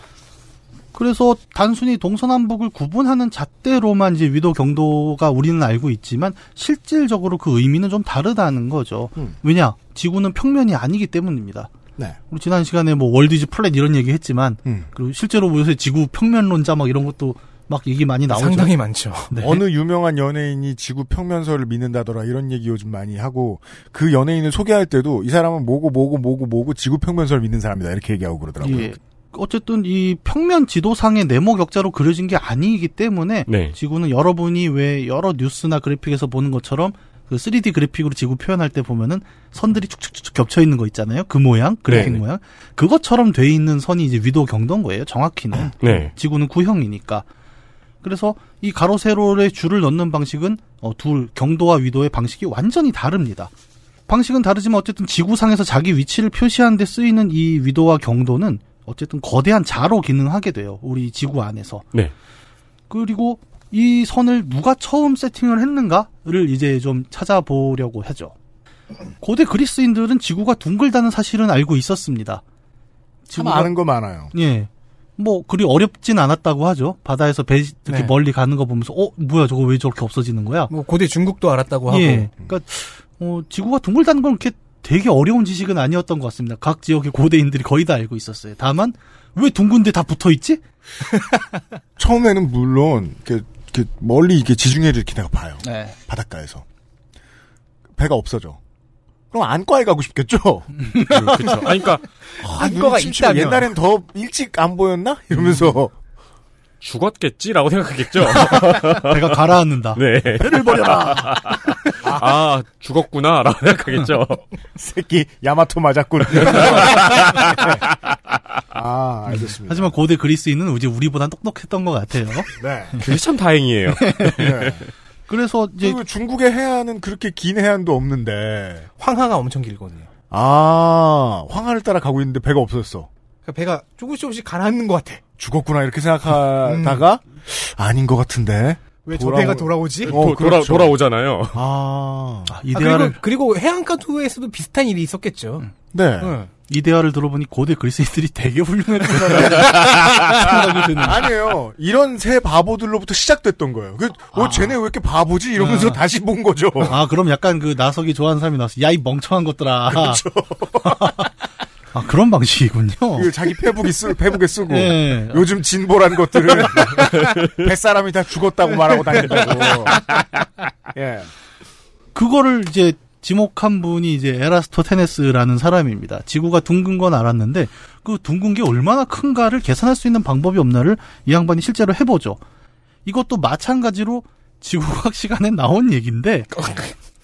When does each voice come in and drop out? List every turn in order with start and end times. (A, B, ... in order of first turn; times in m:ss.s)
0:00.9-0:11.7 A
0:12.3-0:18.7 A
0:18.3-0:19.4 B
0:19.3-0:19.6 A
0:19.4-0:29.0 C
0:28.6-0:47.2 A
0:33.5-0:33.7 D
0:41.9-0:42.2 D
0:45.8-0:46.1 D
0:48.0-0:53.5 A
0:54.1-1:01.8 A
1:02.9-1:08.3 A
1:09.2-1:12.4 A
1:13.3-1:13.7 A
1:13.3-1:14.3 C
1:14.3-1:20.7 A
1:17.9-1:18.1 B
1:20.7-1:22.3 B
1:21.9-1:30.6 A
1:32.0-1:36.6 C
1:35.6-1:35.9 A
1:38.0-1:38.6 C
1:39.3-1:40.8 C
1:40.8-1:41.5 A
1:41.1-1:42.0 D
1:42.3-1:43.7 B
1:42.4-1:45.9 C
1:46.8-1:49.4 D
1:48.6-1:51.6 A
1:49.9-1:54.4 D
1:52.0-1:52.3 C
1:54.8-1:57.8 C
1:56.3-1:57.7 D
1:58.7-1:59.9 C
1:59.7-2:03.1 A
2:02.5-2:03.0 C
2:03.0-2:04.8 D
2:04.0-2:04.5 A
2:04.4-2:04.8 C
2:05.3-2:06.0 A
2:05.8-2:08.9 C
2:09.0-2:10.1 B
2:10.3-2:13.1 C
2:13.5-2:15.2 B
2:15.4-2:21.0 C
2:16.6-2:17.0 B
2:19.0-2:20.2 B
2:20.1-2:21.6 D
2:21.5-2:22.6 C
2:22.5-2:23.2 A
2:22.7-2:25.7 B
2:25.9-2:26.3 C
2:26.2-2:26.5 B
2:26.7-2:31.3 A
2:29.2-2:30.4 C
2:31.0-2:37.0 C
2:34.3-2:34.7 A
2:35.6-2:36.0 A
2:36.8-2:40.2 A
2:39.9-2:41.1 C
2:40.8-2:41.3 A
2:41.9-2:43.3 A
2:43.1-2:50.2 C
2:44.7-2:45.4 A
2:50.9-2:51.3 C
2:52.1-3:02.4 A
3:03.0-3:06.8 A